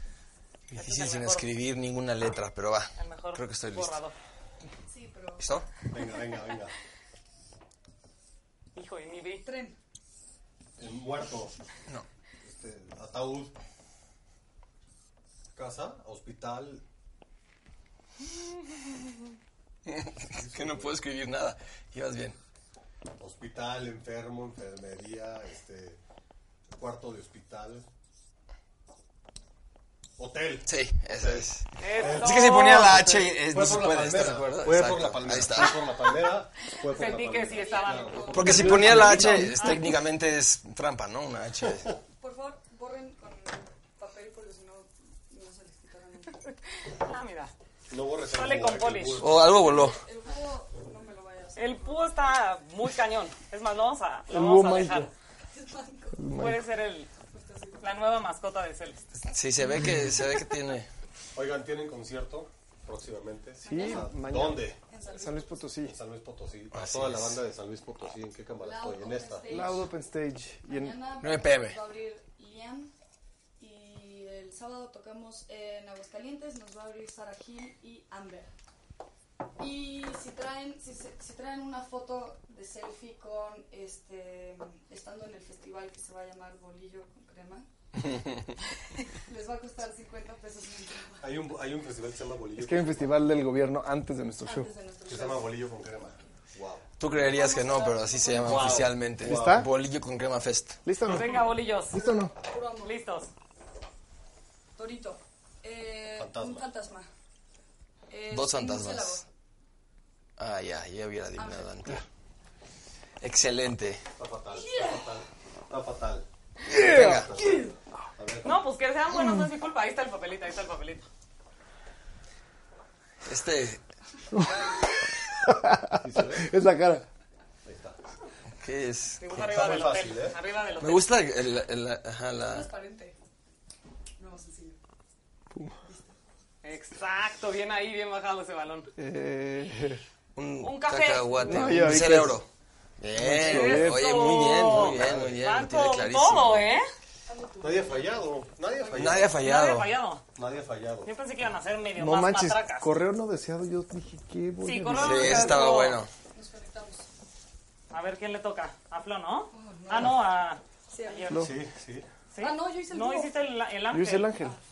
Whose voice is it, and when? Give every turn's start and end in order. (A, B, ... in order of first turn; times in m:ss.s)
0:00.7-0:04.0 A
0:00.8-0:01.5 B
0:03.0-0:04.2 B
0:04.9-0:05.4 C
0:05.4-0:05.7 A
0:05.9-0:06.7 D
0:08.8-0:09.4 B
0:09.4-0:09.8 C
0:10.8-0:11.6 D
0:12.4-0:13.5 D
0:15.5-0:16.8 D
0:19.9-0:22.4 A
0:20.3-0:20.9 D
0:23.2-0:26.0 D
0:26.8-0:27.8 D
0:30.2-0:39.5 D
0:30.7-0:35.8 A
0:31.8-0:33.2 B
0:36.8-0:40.0 B
0:37.4-0:38.7 C
0:38.3-0:41.9 A
0:38.8-0:39.6 E
0:42.2-0:46.4 C
0:47.0-0:47.5 B
0:47.9-0:49.6 D
0:48.3-0:49.2 B
0:49.2-0:50.0 A
0:49.6-0:52.4 C
0:51.6-0:55.1 B
0:54.3-0:55.1 E
0:55.5-0:56.2 C
0:56.1-0:56.7 E
0:56.4-0:57.1 B
0:57.3-0:57.8 C
0:57.8-0:59.0 B
0:59.3-1:00.9 A
1:01.4-1:04.8 D
1:03.6-1:04.1 C
1:03.7-1:06.0 E
1:04.9-1:05.7 C
1:05.8-1:09.5 D
1:06.7-1:07.4 A
1:08.6-1:09.9 C
1:09.5-1:11.0 E
1:10.6-1:12.9 C
1:11.2-1:11.8 A
1:13.6-1:18.5 C
1:19.6-1:27.7 C
1:29.2-1:31.3 C
1:31.2-1:33.0 D
1:32.6-1:34.7 E
1:34.4-1:35.5 C
1:35.1-1:36.8 D
1:37.0-1:40.8 A
1:37.0-1:38.8 C
1:38.4-1:39.6 D
1:39.2-1:39.7 E
1:40.8-1:42.3 E
1:41.1-1:42.0 B
1:42.4-1:42.9 C
1:42.8-1:43.3 B
1:44.8-1:47.1 C
1:46.2-1:46.7 D
1:48.1-1:49.3 C
1:48.3-1:49.2 A
1:50.4-1:52.1 A
1:51.4-1:51.7 C
1:53.2-1:54.0 A
1:54.2-1:56.2 D
1:54.5-1:55.0 C
1:56.7-1:57.7 E
1:56.8-1:57.3 A
1:56.8-1:58.6 D
1:58.4-2:01.1 B
2:03.2-2:03.8 A
2:04.3-2:07.1 E
2:06.0-2:06.5 D
2:07.6-2:08.0 D
2:08.6-2:09.7 A
2:09.2-2:11.1 B
2:09.4-2:10.4 D
2:10.8-2:12.7 A
2:12.4-2:13.2 C
2:14.2-2:14.8 C
2:15.5-2:15.8 E
2:16.6-2:18.9 B
2:19.0-2:20.0 E
2:20.4-2:22.5 A
2:20.6-2:21.8 B
2:21.4-2:22.4 E
2:23.0-2:26.7 A
2:23.1-2:24.2 E
2:23.4-2:26.9 B
2:25.0-2:25.3 D
2:27.3-2:28.2 C
2:27.6-2:29.4 D
2:28.9-2:29.9 A
2:29.3-2:30.2 B
2:30.4-2:31.1 D
2:31.0-2:32.9 B
2:32.0-2:35.7 E
2:34.6-2:36.0 B
2:35.0-2:36.1 A
2:36.3-2:37.1 C
2:37.9-2:41.4 B
2:39.5-2:40.2 C
2:40.9-2:41.3 C
2:41.3-2:41.6 E
2:41.4-2:42.1 D
2:42.3-2:44.4 B
2:42.4-2:43.4 C
2:43.9-2:44.6 E